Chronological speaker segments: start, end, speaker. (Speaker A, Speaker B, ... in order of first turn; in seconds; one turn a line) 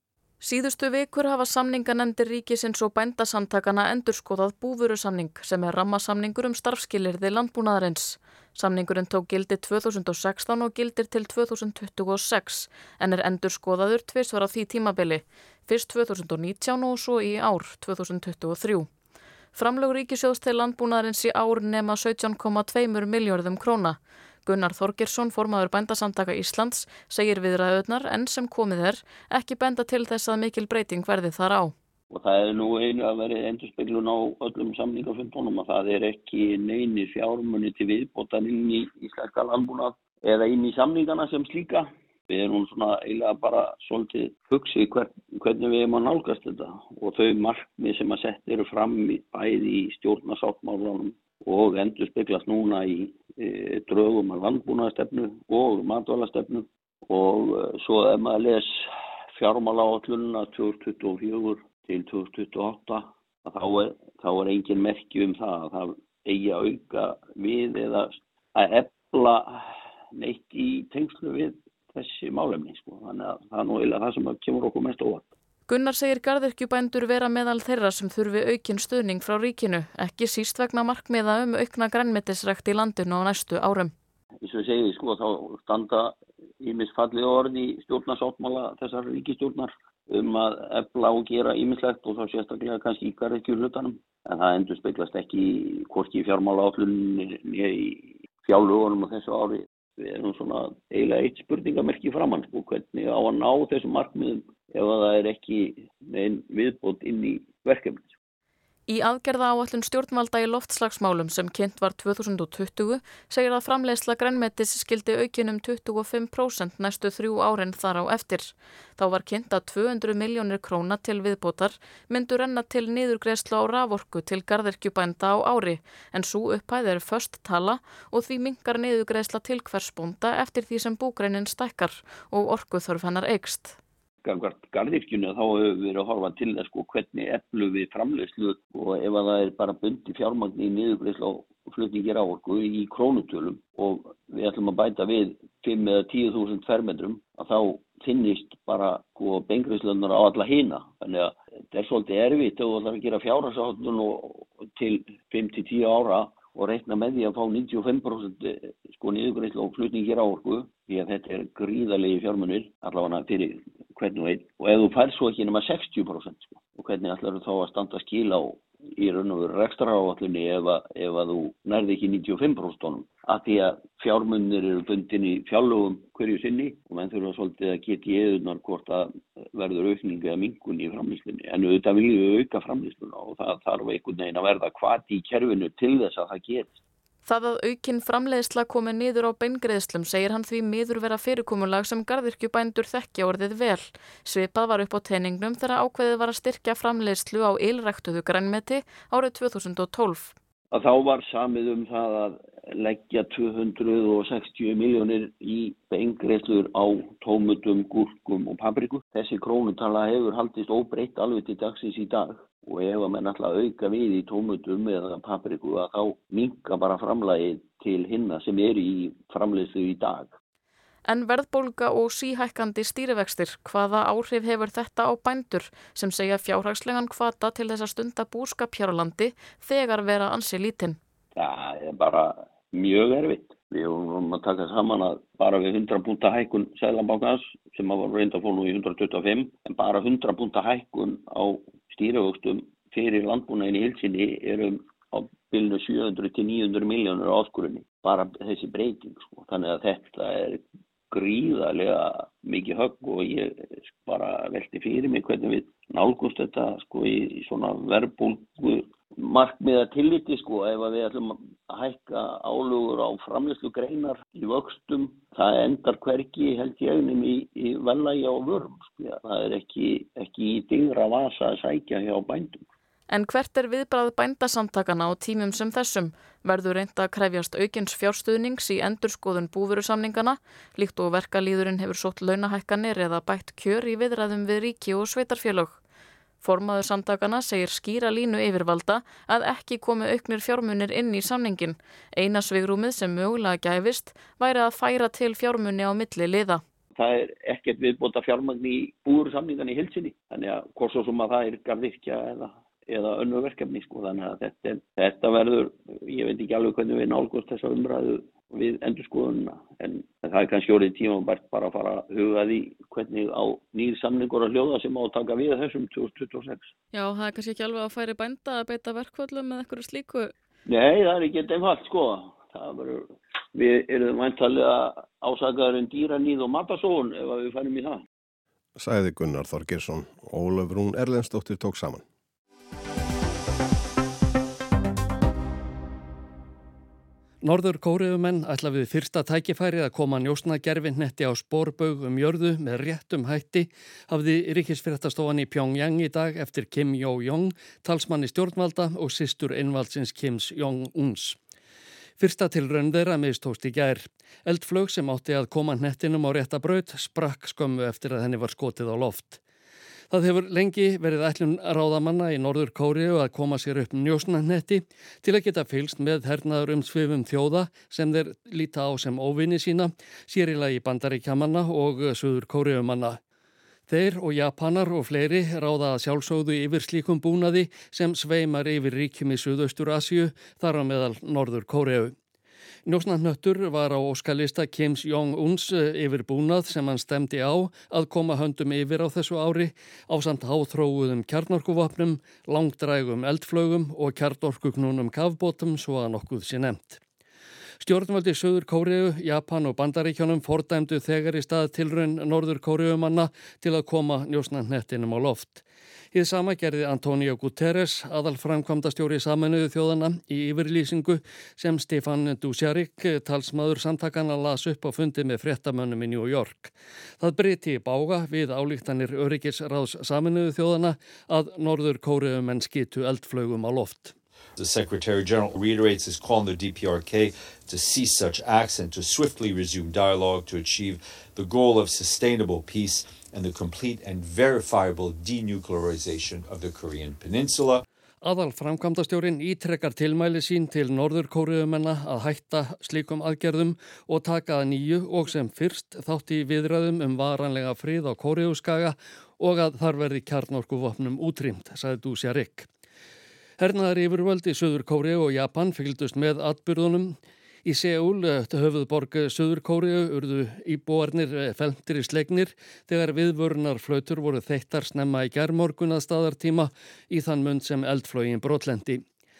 Speaker A: 0.4-18.9
Speaker A: 19.6-31.7
Speaker B: 32.1-58.8
Speaker B: 59.4-75.3
Speaker A: 75.7-83.9
Speaker B: 84.4-108.1
Speaker A: 108.9-133.8
Speaker B: 134.2-186.7
Speaker A: 187.3-200.3
Speaker B: 200.7-220.3
Speaker A: 221.1-231.0
Speaker B: 231.4-272.6
Speaker A: 273.1-285.8
Speaker A: 286.4-296.6
Speaker B: 297.0-316.7
Speaker A: 316.9-320.3
Speaker B: 320.7-328.0
Speaker C: 328.8-332.0
Speaker D: 337.4-351.4
Speaker D: 352.2-359.4
Speaker D: 360.1-373.2
Speaker D: 373.9-382.1
Speaker D: 382.9-397.0
Speaker D: 397.8-424.1
Speaker E: 424.6-437.8
Speaker D: 438.2-452.7
Speaker D: 453.6-469.0